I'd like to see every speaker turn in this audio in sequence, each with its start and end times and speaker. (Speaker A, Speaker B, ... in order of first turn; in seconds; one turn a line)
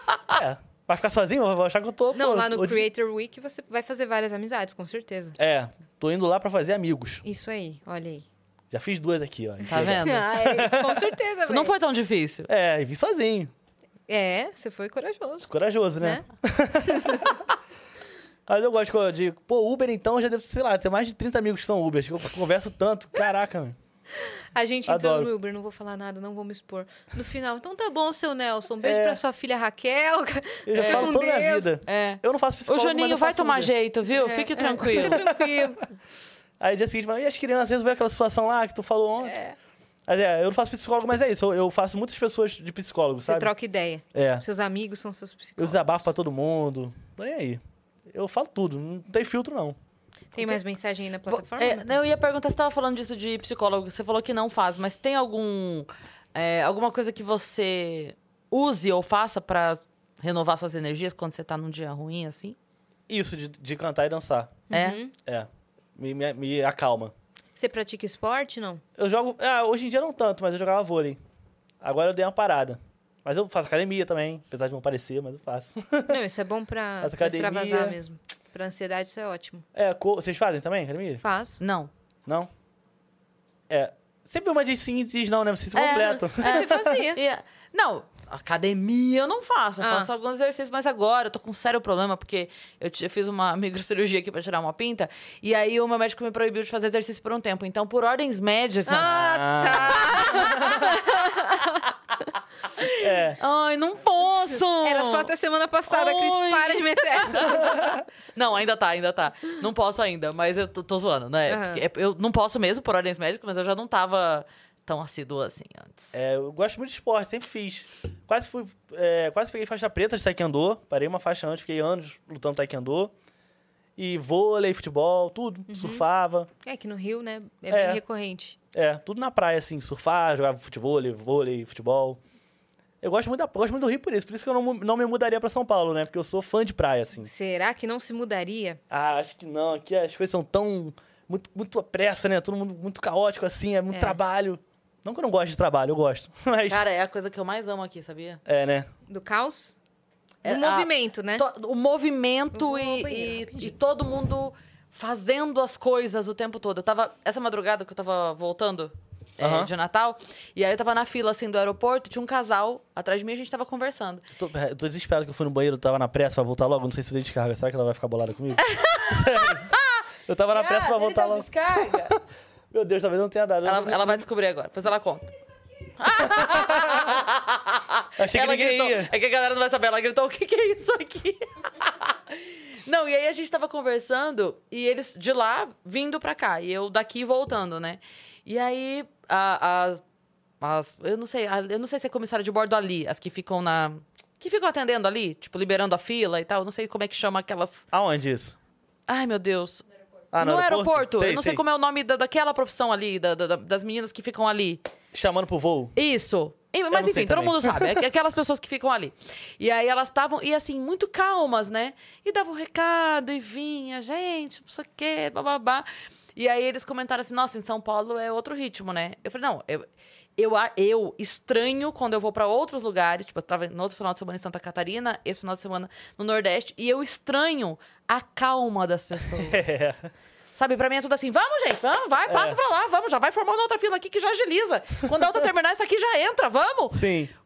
Speaker A: 0.3-2.8
Speaker B: 2.1-5.4
Speaker A: 5.4-7.2
Speaker B: 7.2-8.2
Speaker A: 8.7-11.1
Speaker C: 9.7-10.3
Speaker B: 9.7-11.7
Speaker C: 11.5-12.5
Speaker A: 12.5-13.5
Speaker B: 14.1-16.2
Speaker A: 15.5-17.4
Speaker B: 16.8-17.3
Speaker A: 18.5-23.8
Speaker B: 24.2-31.7
Speaker A: 24.9-25.3
Speaker A: 28.8-29.2
Speaker A: 30.6-33.7
Speaker C: 30.8-31.2
Speaker C: 31.9-35.2
Speaker B: 34.1-35.8
Speaker A: 34.9-35.7
Speaker A: 36.6-39.4
Speaker A: 40.1-43.5
Speaker B: 43.3-46.1
Speaker A: 44.1-44.4
Speaker A: 45.6-49.8
Speaker B: 50.3-52.0
Speaker C: 51.3-62.6
Speaker A: 63.1-64.6
Speaker B: 64.7-65.1
Speaker C: 64.7-65.0
Speaker A: 65.2-67.1
Speaker B: 67.5-68.8
Speaker A: 69.0-71.2
Speaker A: 71.8-76.2
Speaker B: 76.1-79.7
Speaker A: 77.0-78.0
Speaker A: 79.7-81.2
Speaker B: 81.2-81.6
Speaker C: 81.6-81.9
Speaker A: 83.7-86.9
Speaker C: 85.7-101.3
Speaker B: 86.3-87.2
Speaker B: 89.8-90.1
Speaker B: 98.9-101.8
Speaker A: 99.1-100.9
Speaker C: 102.8-105.3
Speaker A: 103.0-103.4
Speaker B: 104.8-108.0
Speaker C: 105.9-116.1
Speaker A: 107.7-108.0
Speaker B: 111.5-111.8
Speaker A: 116.1-123.1
Speaker A: 124.0-126.5
Speaker B: 125.7-126.0
Speaker B: 126.6-128.6
Speaker A: 127.7-128.0
Speaker A: 128.7-132.2
Speaker A: 133.0-137.3
Speaker B: 137.2-138.8
Speaker A: 138.9-146.8
Speaker B: 143.9-144.2
Speaker C: 146.7-148.4
Speaker A: 148.4-148.9
Speaker B: 149.1-149.8
Speaker C: 150.4-164.2
Speaker B: 150.4-151.4
Speaker B: 152.5-153.7
Speaker A: 159.4-159.7
Speaker A: 164.3-169.7
Speaker C: 168.6-172.1
Speaker A: 170.3-172.2
Speaker A: 172.7-174.2
Speaker C: 173.6-175.3
Speaker C: 176.0-190.0
Speaker A: 176.2-177.2
Speaker A: 178.2-179.1
Speaker C: 190.6-197.9
Speaker A: 197.9-198.6
Speaker C: 199.1-204.8
Speaker A: 200.3-201.6
Speaker A: 205.1-205.9
Speaker C: 205.9-229.9
Speaker A: 206.9-208.0
Speaker A: 229.4-230.1
Speaker C: 230.6-237.1
Speaker A: 232.3-232.6
Speaker A: 236.9-237.3